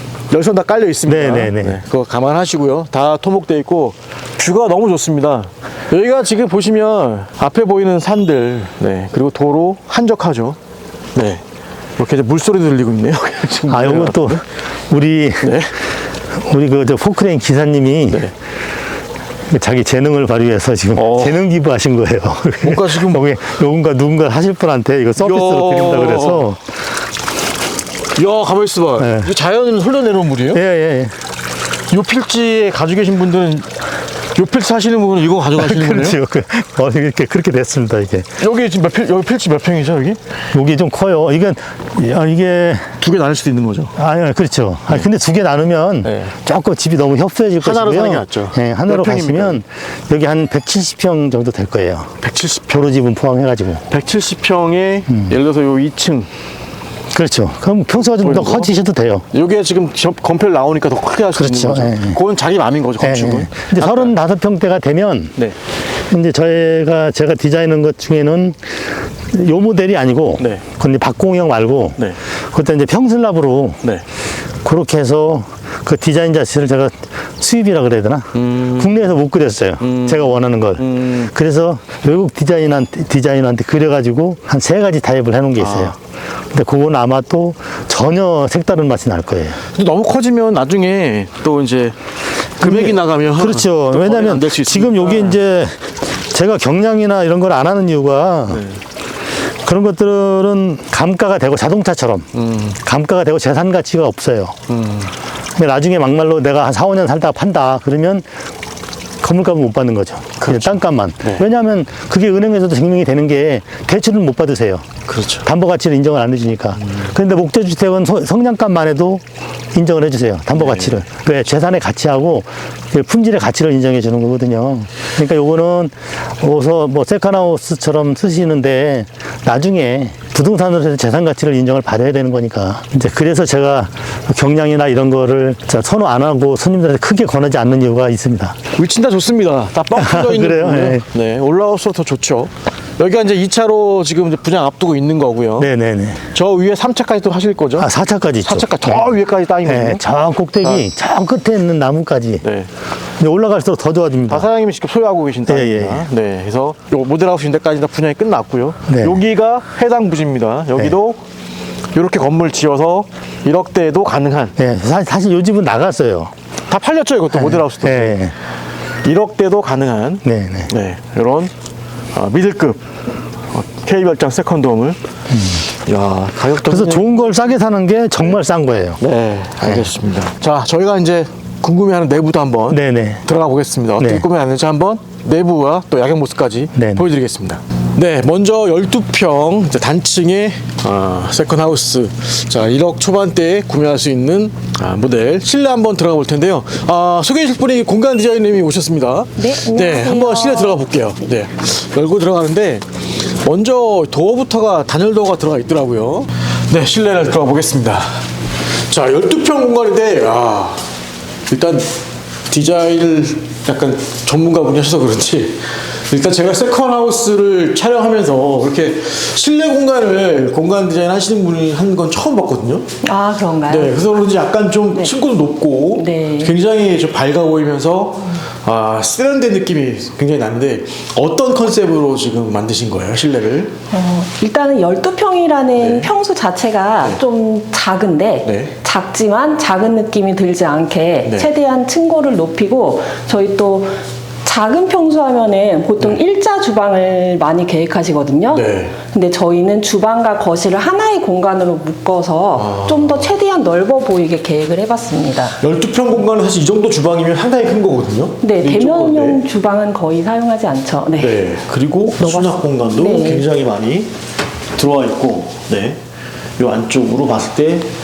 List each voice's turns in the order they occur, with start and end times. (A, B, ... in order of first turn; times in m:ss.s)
0:00.3-0:10.6 A
0:01.0-0:01.8 B
0:11.1-0:11.4 A
0:12.0-0:14.4 A
0:13.7-0:15.6 B
0:15.4-0:15.7 A
0:16.3-0:18.3 B
0:19.5-0:26.7 B
0:20.9-0:21.4 A
0:22.6-0:23.2 A
0:25.2-0:26.5 A
0:28.2-0:30.6 A
0:29.0-0:29.3 B
0:30.5-0:31.2 B
0:31.9-0:33.7 A
0:34.3-0:36.2 A
0:35.6-0:38.3 B
0:38.4-0:40.2 A
0:40.5-0:42.9 B
0:43.0-0:43.9 A
0:44.0-0:52.1 B
0:46.0-0:46.3 A
0:47.6-0:49.6 A
0:52.2-0:53.0 A
0:52.7-0:53.8 B
0:53.9-0:56.3 A
0:57.1-0:59.2 B
0:58.0-0:58.7 A
0:59.3-1:04.1 A
1:01.4-1:02.2 B
1:03.0-1:05.3 B
1:06.1-1:08.7 B
1:09.3-1:12.0 B
1:10.4-1:10.6 A
1:12.5-1:13.8 B
1:14.6-1:26.0 B
1:18.3-1:18.9 A
1:19.8-1:21.3 A
1:25.6-1:25.9 A
1:26.5-1:29.6 B
1:29.7-1:32.0 A
1:32.6-1:35.4 A
1:32.6-1:38.6 B
1:38.5-1:38.8 A
1:39.6-1:44.6 B
1:42.3-1:42.8 A
1:44.7-1:45.1 A
1:45.6-1:48.3 B
1:49.2-1:54.9 B
1:50.4-1:51.4 A
1:55.1-1:55.5 A
1:55.4-2:18.6 B
1:56.8-1:57.1 A
2:00.5-2:01.0 A
2:18.7-2:25.7 A
2:19.9-2:21.0 B
2:25.6-2:26.2 B
2:26.3-2:27.9 A
2:27.8-2:32.4 B
2:28.4-2:30.0 A
2:32.4-2:32.7 A
2:33.2-2:34.5 B
2:34.3-2:41.2 A
2:35.5-2:36.0 B
2:38.9-2:39.2 B
2:41.9-2:44.6 A
2:44.6-2:46.3 B
2:46.7-2:48.3 A
2:47.3-2:48.3 B
2:49.0-2:51.5 A
2:50.2-2:50.7 B
2:52.1-2:52.8 A
2:53.5-2:55.0 A
2:55.3-2:55.6 B
2:55.7-2:57.3 A
2:56.7-2:59.0 B
2:59.0-3:28.2 A
3:02.7-3:03.2 B
3:04.0-3:04.2 B
3:06.7-3:07.1 B
3:19.4-3:20.8 C
3:28.9-3:30.8 A
3:31.5-3:31.9 A
3:32.5-3:42.9 A
3:43.0-3:43.9 C
3:43.7-3:53.7 A
3:45.9-3:46.5 C
3:53.9-4:15.6 C
3:55.8-3:56.1 A
3:58.4-3:58.7 A
4:08.5-4:09.0 A
4:12.5-4:13.3 A
4:15.6-4:19.4 A
4:18.4-4:21.4 C
4:21.2-4:24.1 A
4:22.2-4:23.4 C
4:24.8-4:26.0 A
4:26.6-4:27.9 A